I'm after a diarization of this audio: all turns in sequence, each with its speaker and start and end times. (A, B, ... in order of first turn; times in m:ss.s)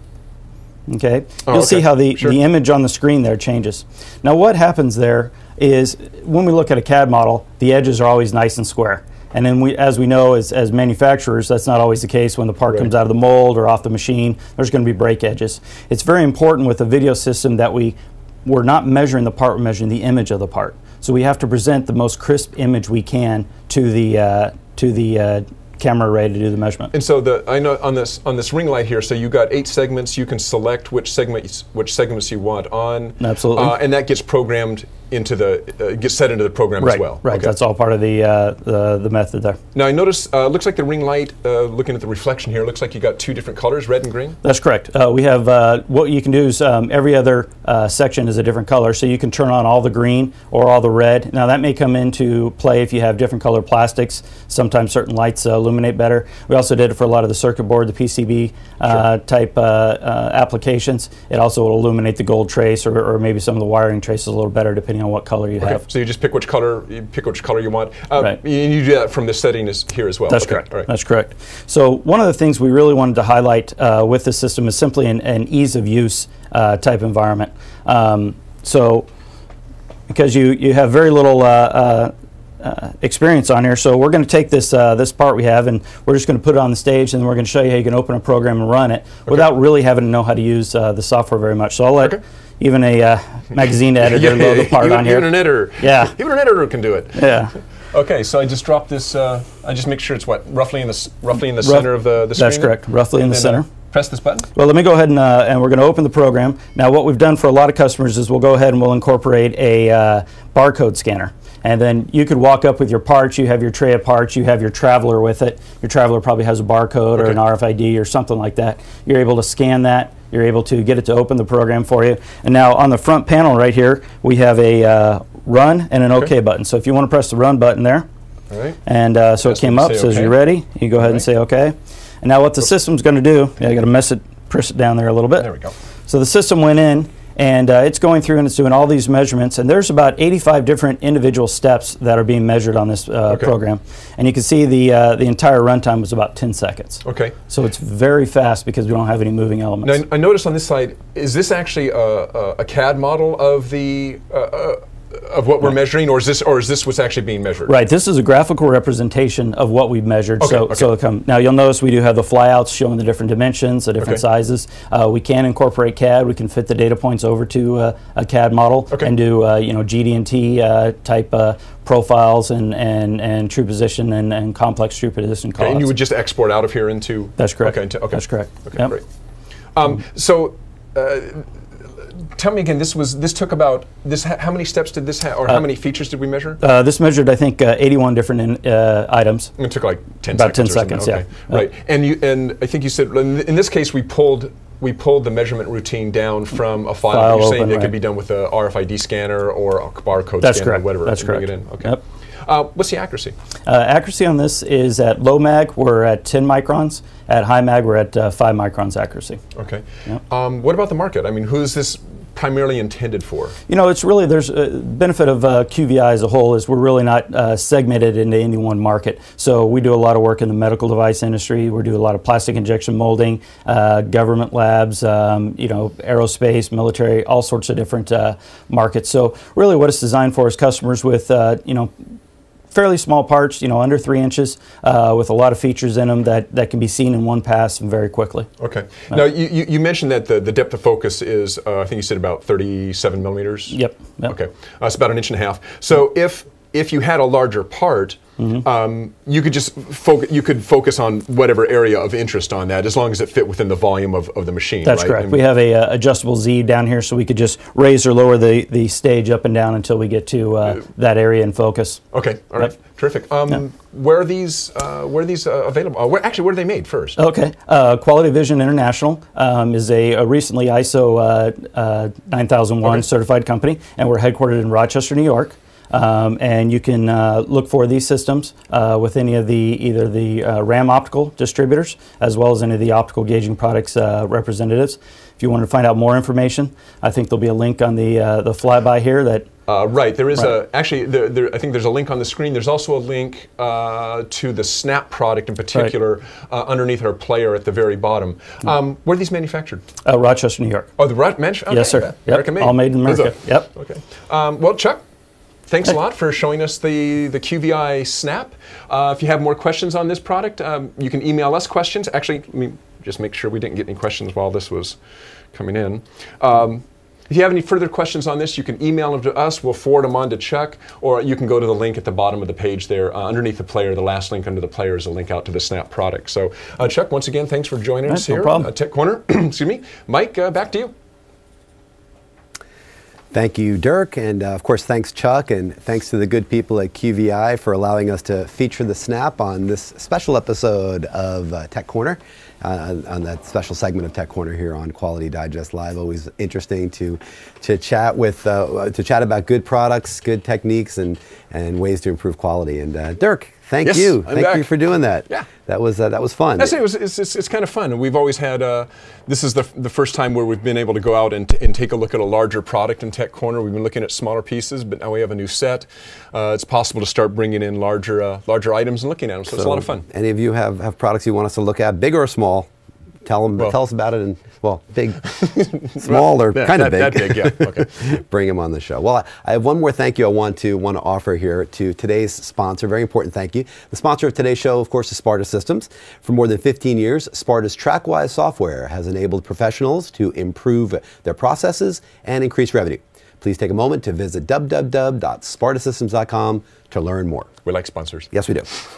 0:00.9-0:26.9 A
0:01.5-0:02.4 B
0:26.9-0:37.5 B
0:33.2-0:33.8 A
0:36.8-0:39.6 A
0:39.7-0:44.4 B
0:44.4-1:05.8 A
1:05.6-1:10.9 B
1:10.3-1:19.1 A
1:20.1-1:36.1 A
1:34.0-1:44.5 B
1:37.1-1:37.5 A
1:41.6-1:43.7 A
1:44.5-2:08.0 A
2:08.5-2:08.8 B
2:08.8-2:15.5 A
2:09.4-2:10.4 B
2:15.4-2:15.7 B
2:16.1-2:30.0 A
2:23.3-2:23.5 B
2:27.0-2:27.3 B
2:29.8-2:37.7 B
2:37.7-2:55.9 A
2:40.4-2:40.9 B
2:55.6-2:59.0 B
2:57.4-2:58.9 A
2:59.7-3:06.6 B
3:06.6-3:09.5 A
3:09.6-3:23.3 B
3:10.3-3:11.6 A
3:17.1-3:17.9 A
3:20.4-3:22.0 A
3:23.7-3:29.4 A
3:29.6-3:33.6 B
3:33.7-3:51.9 A
3:52.7-3:58.5 A
3:58.6-4:15.4 B
4:03.7-4:04.3 A
4:14.8-4:22.0 A
4:22.1-4:27.2 B
4:27.2-4:49.5 A
4:49.7-4:59.8 B
5:00.0-5:00.9 A
5:01.0-5:05.0 B
5:01.7-5:03.7 A
5:05.7-5:15.0 B
5:15.5-5:30.9 B
5:28.1-5:28.7 A
5:33.3-5:56.8 C
5:53.8-5:54.7 B
5:56.6-6:10.0 B
6:09.5-6:12.7 C
6:13.2-6:37.5 C
6:15.3-6:18.1 B
6:37.6-6:38.3 B
6:38.3-6:38.7 C